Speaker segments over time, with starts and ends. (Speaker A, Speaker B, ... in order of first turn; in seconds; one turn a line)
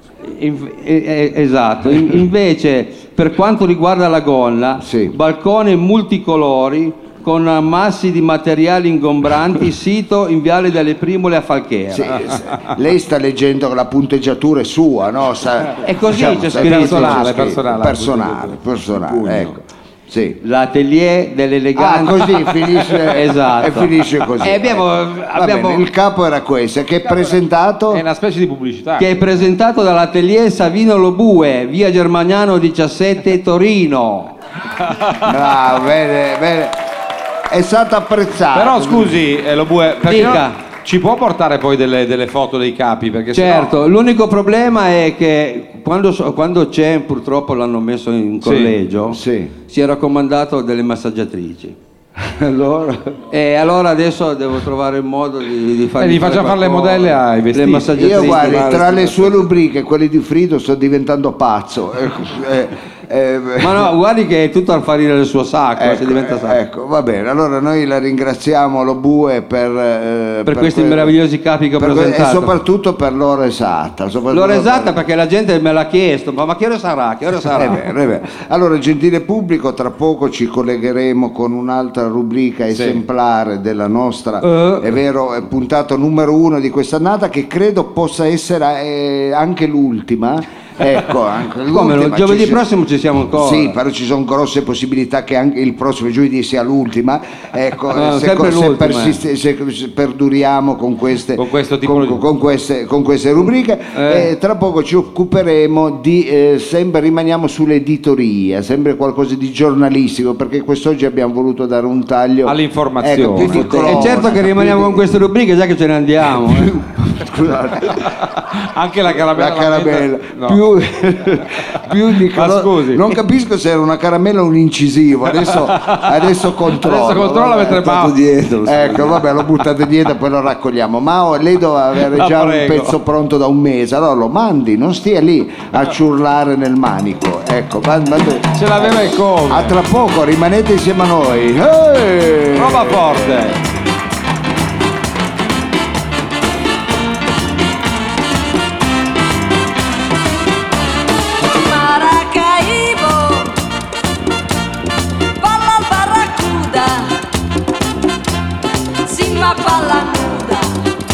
Speaker A: 0.2-12.2
Speaker B: 4.8-5.1
Speaker B: 11.9-20.4
Speaker A: 15.8-17.4
Speaker C: 16.5-18.4
Speaker D: 18.9-19.5
Speaker A: 20.4-25.8
Speaker B: 21.7-28.0
Speaker C: 27.9-29.2
Speaker A: 29.0-34.4
Speaker C: 34.9-35.3
Speaker B: 35.2-36.8
Speaker B: 37.5-39.1
Speaker C: 38.5-43.7
Speaker A: 40.1-40.5
Speaker A: 43.3-51.8
Speaker C: 48.4-48.8
Speaker B: 49.1-49.5
Speaker B: 52.2-53.2
Speaker A: 53.3-58.7
Speaker C: 56.0-58.2
Speaker B: 57.9-63.9
Speaker D: 58.3-59.5
Speaker A: 63.6-66.6
Speaker B: 65.8-71.2
Speaker A: 70.5-72.5
Speaker B: 71.8-75.0
Speaker A: 74.3-77.8
Speaker B: 77.5-92.7
Speaker C: 82.7-83.0
Speaker A: 84.4-84.9
Speaker A: 91.7-93.7
Speaker B: 93.3-115.0
Speaker A: 97.9-99.2
Speaker C: 101.4-102.2
Speaker A: 103.9-104.3
Speaker C: 112.4-113.9
Speaker D: 113.4-114.7
Speaker A: 113.7-116.8
Speaker B: 116.4-118.1
Speaker C: 117.9-120.6
Speaker B: 119.3-127.8
Speaker C: 122.2-123.1
Speaker C: 125.4-128.2
Speaker D: 127.3-129.2
Speaker B: 128.6-143.4
Speaker C: 132.0-133.0
Speaker C: 138.5-139.8
Speaker C: 142.5-143.6
Speaker E: 151.4-153.6
Speaker E: 155.4-157.1
Speaker E: 159.0-160.7